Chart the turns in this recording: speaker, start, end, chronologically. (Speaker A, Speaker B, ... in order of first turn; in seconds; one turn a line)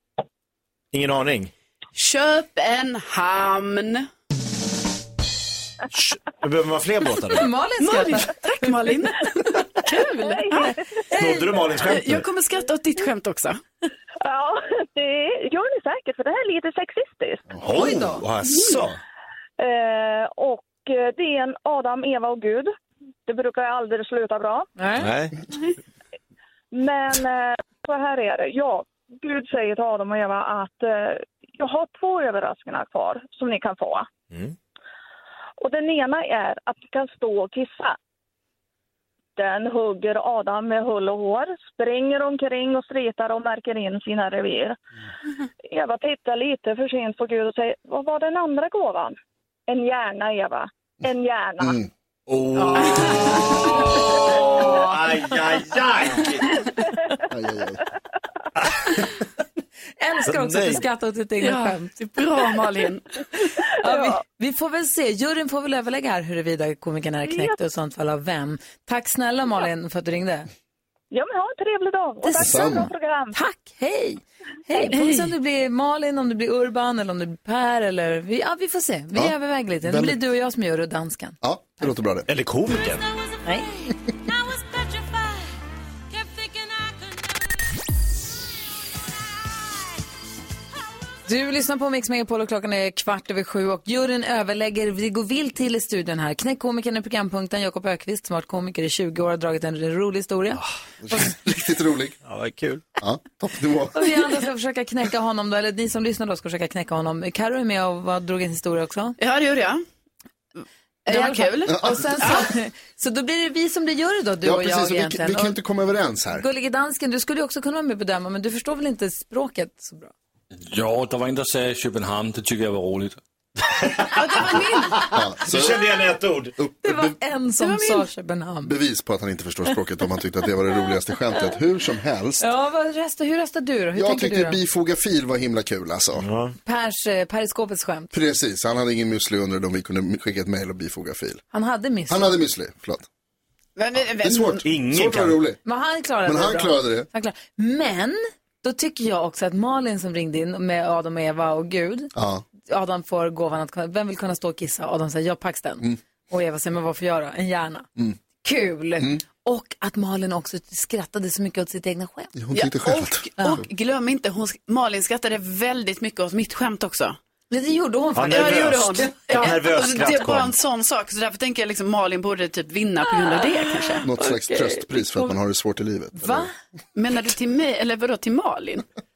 Speaker A: 0.9-1.5
Speaker B: 1.9-4.1
Speaker A: 5.9-7.5
Speaker C: 7.3-8.3
Speaker B: 7.8-10.7
Speaker D: 10.2-10.7
Speaker C: 10.5-11.5
Speaker A: 11.2-12.2
Speaker B: 11.8-13.6
Speaker D: 14.2-17.4
Speaker A: 17.6-19.0
Speaker C: 17.7-18.2
Speaker B: 18.5-18.8
Speaker D: 19.6-22.7
Speaker D: 23.2-24.7
Speaker C: 24.8-25.1
Speaker A: 25.0-25.3
Speaker D: 26.7-34.1
Speaker D: 35.6-38.0
Speaker D: 39.4-44.8
Speaker D: 45.7-49.2
Speaker D: 49.7-51.8
Speaker E: 51.6-51.9
Speaker A: 52.3-56.6
Speaker B: 52.5-53.5
Speaker E: 57.3-57.8
Speaker C: 60.0-62.4
Speaker A: 60.3-60.8
Speaker B: 61.4-63.0
Speaker C: 63.8-70.5
Speaker D: 67.3-67.5
Speaker D: 71.1-73.4
Speaker C: 72.2-81.9
Speaker E: 72.4-72.9
Speaker B: 75.0-75.2
Speaker E: 79.1-80.2
Speaker E: 81.4-82.3
Speaker A: 82.3-83.0
Speaker C: 91.3-100.6
Speaker E: 101.0-102.2
Speaker A: 102.2-102.8
Speaker E: 103.0-104.1
Speaker C: 103.9-109.2
Speaker B: 109.2-109.8
Speaker B: 111.1-112.4
Speaker C: 111.1-115.5
Speaker E: 111.7-112.0
Speaker E: 114.4-116.4
Speaker C: 116.3-120.1
Speaker F: 120.7-123.2
Speaker A: 123.8-124.1
Speaker B: 124.1-125.0
Speaker A: 125.0-126.5
Speaker E: 125.1-125.9
Speaker E: 126.6-127.1
Speaker C: 126.8-128.7
Speaker B: 127.6-128.1
Speaker E: 128.6-132.4
Speaker C: 132.4-134.6
Speaker E: 133.9-136.2
Speaker A: 136.2-136.5
Speaker C: 136.7-138.1
Speaker E: 138.1-141.4
Speaker C: 141.5-142.3
Speaker E: 142.1-143.1
Speaker B: 143.8-144.6
Speaker E: 144.2-145.6
Speaker A: 144.6-145.4
Speaker C: 145.6-152.1
Speaker E: 146.2-147.1
Speaker E: 152.1-152.4
Speaker C: 152.6-157.9
Speaker C: 158.4-162.3
Speaker E: 162.3-163.2
Speaker B: 162.5-167.2
Speaker C: 167.5-169.5
Speaker A: 168.2-170.6
Speaker B: 168.3-174.0
Speaker C: 173.8-175.3
Speaker E: 174.0-176.5
Speaker C: 176.2-176.5
Speaker B: 176.9-178.8